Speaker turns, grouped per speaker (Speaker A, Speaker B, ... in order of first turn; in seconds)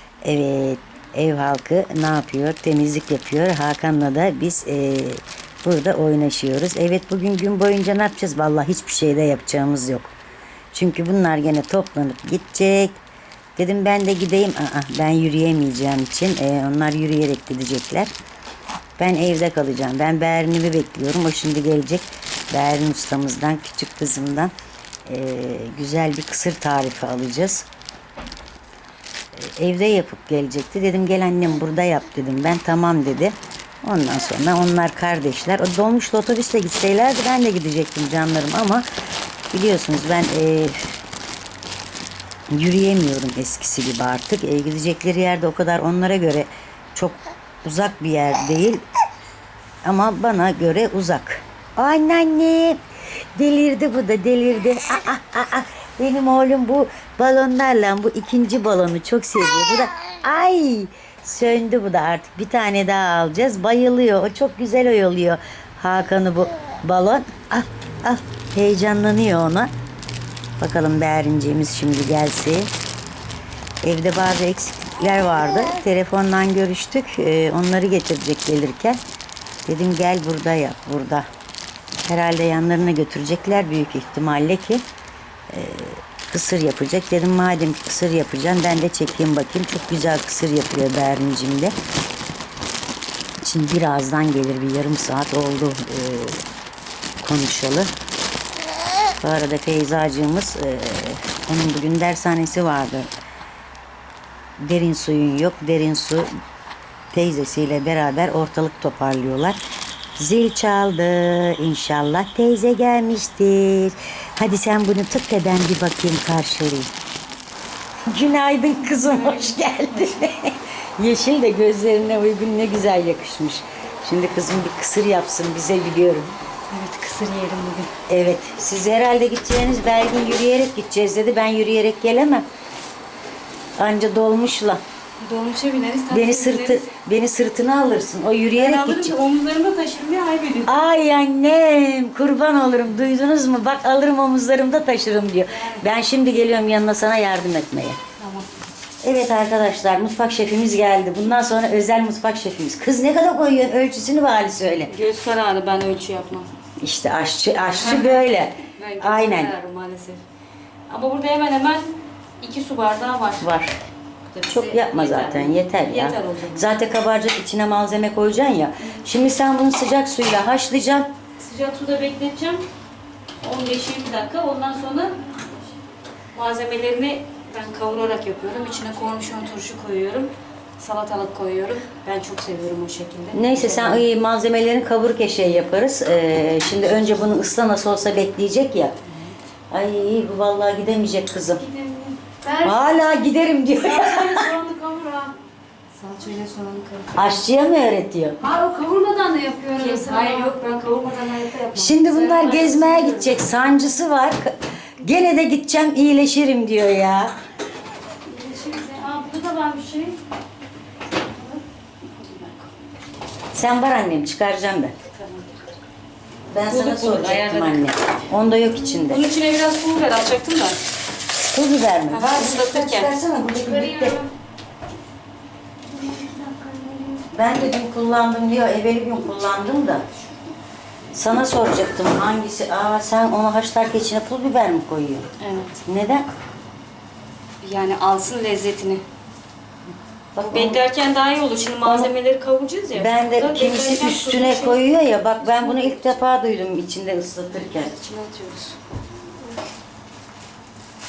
Speaker A: 0.2-10.1, 10.7-13.0, 13.6-18.1, 19.0-24.5, 25.1-27.6, 29.3-38.9, 39.5-40.9, 42.5-48.8, 49.8-52.8, 53.4-69.7, 70.6-72.7, 73.8-79.0, 79.7-81.3, 82.0-84.8, 85.5-91.7, 93.4-96.4, 97.2-97.9, 99.2-103.1, 104.6-106.3, 107.1-109.5, 110.2-116.9, 118.0-126.4, 128.1-132.4, 133.8-134.8, 136.1-139.1, 140.7-148.0, 149.0-154.9, 156.8-159.5, 163.4-163.8, 164.4-171.1, 183.3-188.9, 189.7-191.6, 192.6-194.5, 197.1-198.4, 201.7-207.3, 213.5-214.9, 216.5-219.2, 221.4-224.2, 227.3-230.1, 231.1-235.3, 235.8-236.3, 240.3-240.8, 241.8-242.1, 242.9-247.9
Speaker B: 119.0-120.2, 126.7-127.9, 135.2-136.9, 138.5-140.8, 145.5-145.8, 148.2-148.5, 154.9-156.5, 157.7-160.2, 160.9-163.5, 164.3-166.7, 171.4-172.6, 173.4-175.2, 176.3-184.0, 189.0-189.3, 191.8-192.1, 195.9-197.4, 199.7-203.5, 208.3-210.2, 211.3-212.7, 215.1-215.7, 216.6-217.8, 218.9-220.8, 222.1-223.1, 226.6-226.8, 235.4-235.8, 237.6-239.0, 240.4-244.8, 245.4-246.2, 247.6-248.8
Speaker C: 192.2-192.8, 193.8-195.3, 198.4-200.6, 223.6-224.2, 226.0-227.2